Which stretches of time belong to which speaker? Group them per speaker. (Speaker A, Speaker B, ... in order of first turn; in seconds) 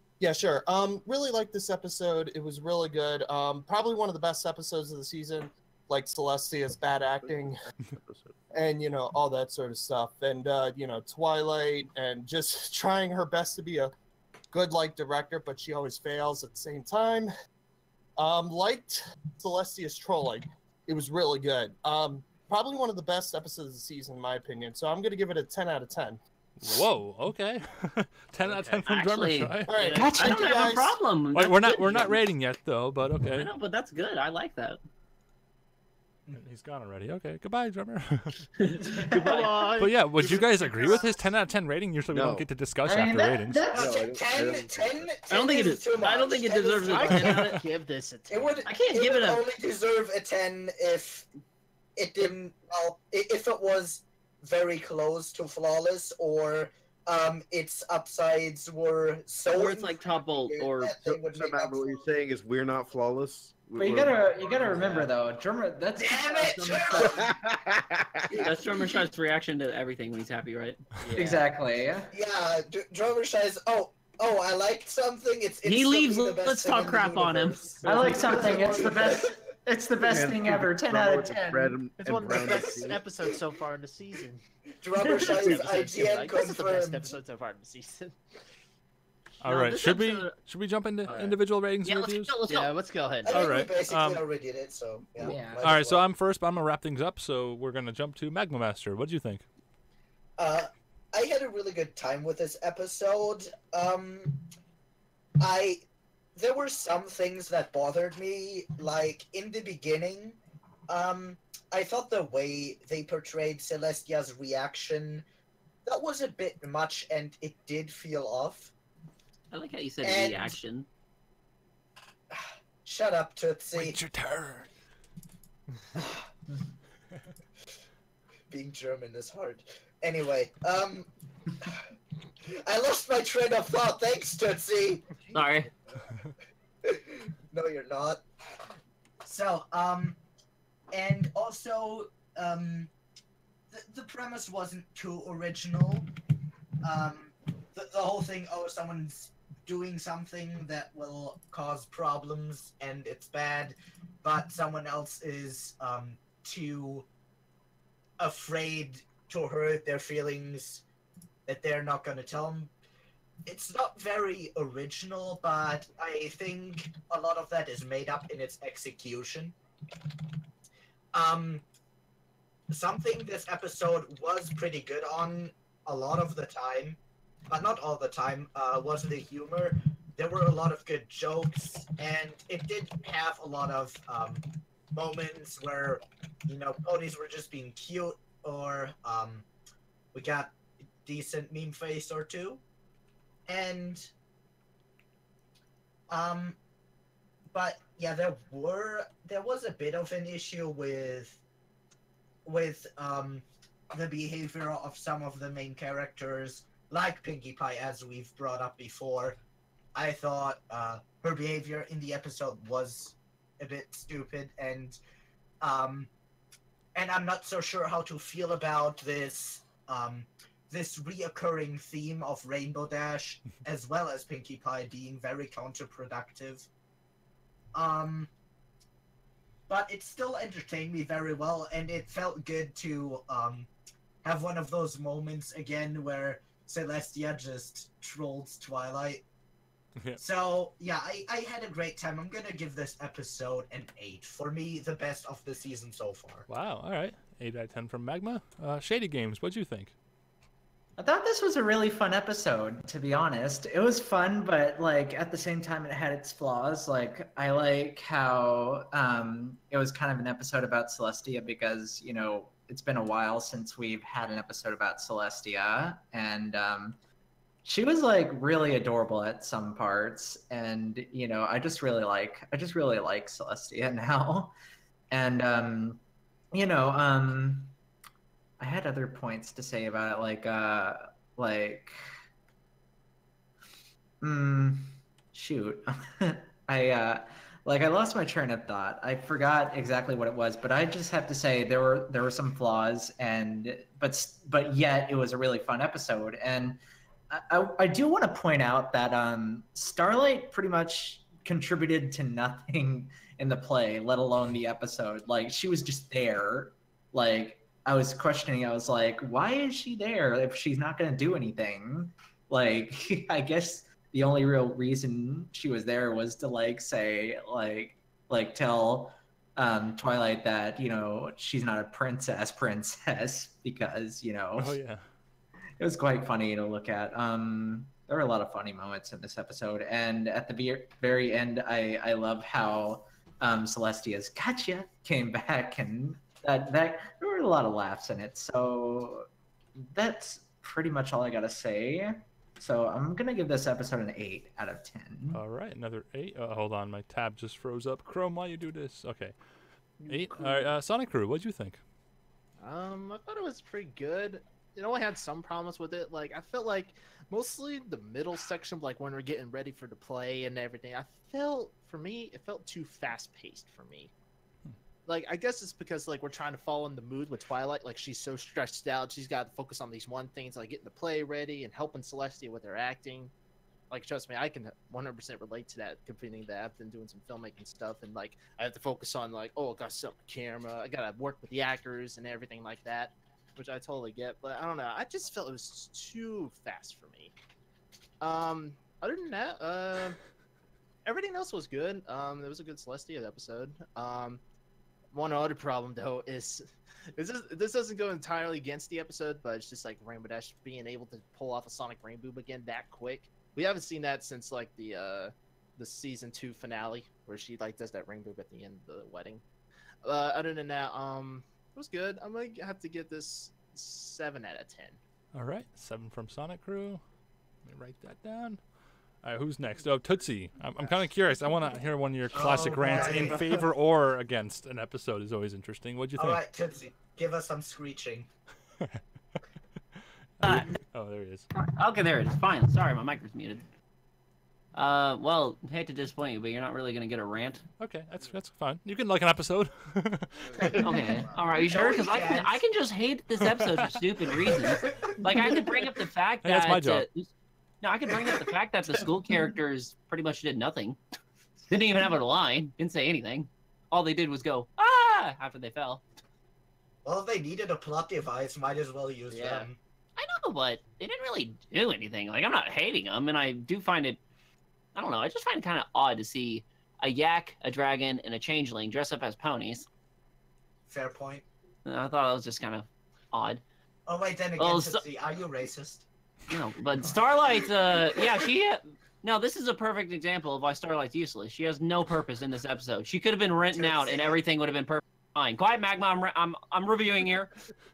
Speaker A: 0.2-7.7, 8.5-13.9, 14.5-17.3, 18.2-26.2, 29.7-31.0
Speaker B: 7.2-8.4, 42.1-42.5, 43.7-45.2, 60.5-65.0, 67.0-68.5, 80.0-83.0, 135.3-135.7, 440.4-441.6
Speaker C: 26.6-29.7, 31.3-33.5, 36.3-38.5, 39.8-43.6, 89.4-92.3, 93.3-94.2, 95.3-99.4, 123.7-124.7, 246.5-249.9, 324.6-325.0, 345.3-349.3, 350.1-351.8, 415.3-417.0, 417.6-418.6, 419.2-426.4, 430.4-431.5, 437.8-440.8, 443.4-443.9, 446.4-447.0
Speaker D: 28.6-32.2, 33.3-34.8, 38.6-39.5, 45.3-47.6, 48.7-49.4, 59.5-60.9, 68.3-70.8, 75.6-77.7, 89.4-90.3, 91.8-92.7, 119.5-120.9, 135.3-135.7, 422.9-423.2, 430.4-430.8, 431.5-433.6, 434.7-437.6, 440.8-447.3, 447.8-451.0, 451.7-456.0, 459.3-464.2, 464.9-469.9, 471.8-473.6, 474.6-475.0, 476.5-487.5
Speaker E: 29.9-30.6, 38.9-39.3, 42.8-44.1, 63.8-67.1, 71.1-72.1, 77.8-81.8, 95.2-95.6, 251.0-267.0, 267.6-274.5, 275.1-276.0, 276.5-277.7, 278.6-281.9, 284.2-324.8, 325.8-345.4
Speaker F: 39.0-41.2, 46.8-48.7, 71.0-71.4, 77.8-78.9, 82.0-84.4, 85.0-88.2, 91.0-91.4, 92.5-93.4, 350.0-350.7, 352.6-364.1, 365.1-373.3, 373.9-387.3, 388.2-390.2, 391.0-394.4, 395.1-409.4, 410.0-415.0, 440.6-441.2
Speaker G: 43.7-47.5, 48.3-51.3, 52.0-62.2, 66.0-67.2, 72.1-79.3, 82.3-82.7, 84.8-87.2, 93.2-96.0, 100.4-104.4, 105.4-105.8, 106.3-115.2, 115.8-118.7, 120.0-120.5, 122.3-124.0, 128.5-131.8, 132.4-135.1, 136.8-138.2, 139.2-140.2, 140.9-142.9, 143.7-146.1, 146.8-157.1, 158.2-160.8, 161.4-162.7, 163.4-169.5, 171.1-171.6, 172.7-189.4, 190.1-192.6, 193.5-194.1, 196.1-196.6, 197.5-201.4, 202.4-209.4, 209.9-215.0, 215.6-216.1, 216.9-226.7, 227.7-228.3, 229.7-233.7, 234.2-239.2, 240.2-246.5, 422.3-423.6, 426.2-428.3, 441.5-442.6, 444.8-445.3, 457.0-459.8, 470.9-471.4, 474.1-476.1, 483.7-484.4